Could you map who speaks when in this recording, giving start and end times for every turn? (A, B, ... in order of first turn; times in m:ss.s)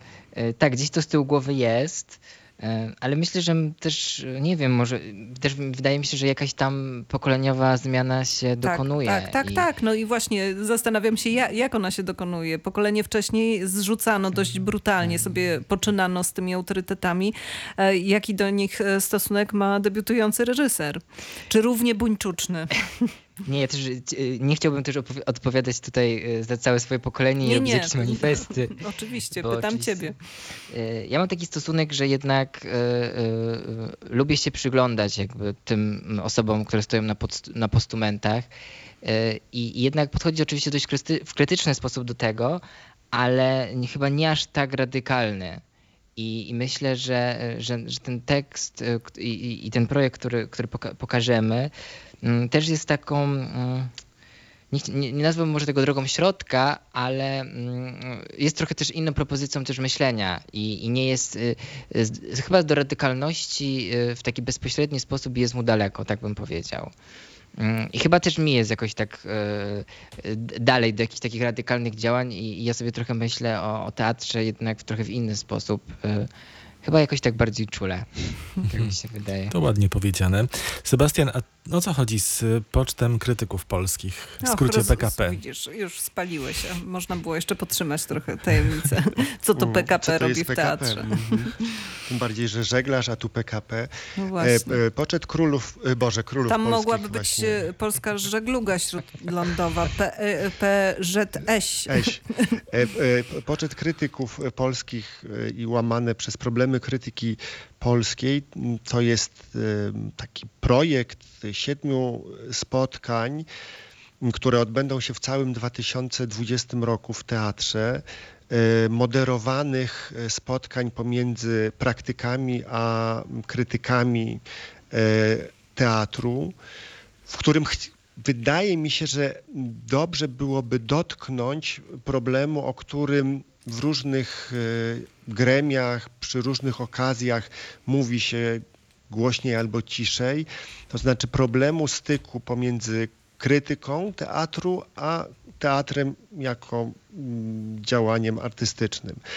0:00.3-0:09.7 A
0:08.6-0:23.1 B
0:23.4-0:28.8 A
0:27.4-0:30.2 B
0:29.3-0:30.1 A
0:30.7-0:38.5 A
0:39.0-0:45.6 A
0:46.2-0:51.7 A
0:52.2-0:53.9 A
0:54.7-1:06.9 A
1:07.6-1:16.3 A
1:16.8-1:19.5 A
1:19.5-1:25.4 C
1:24.4-1:31.7 B
1:29.6-1:31.5 D
1:32.0-1:37.6 D
1:34.2-1:34.8 B
1:36.4-1:42.6 B
1:41.8-1:53.5 D
1:54.2-2:06.6 D
2:07.3-2:29.2 D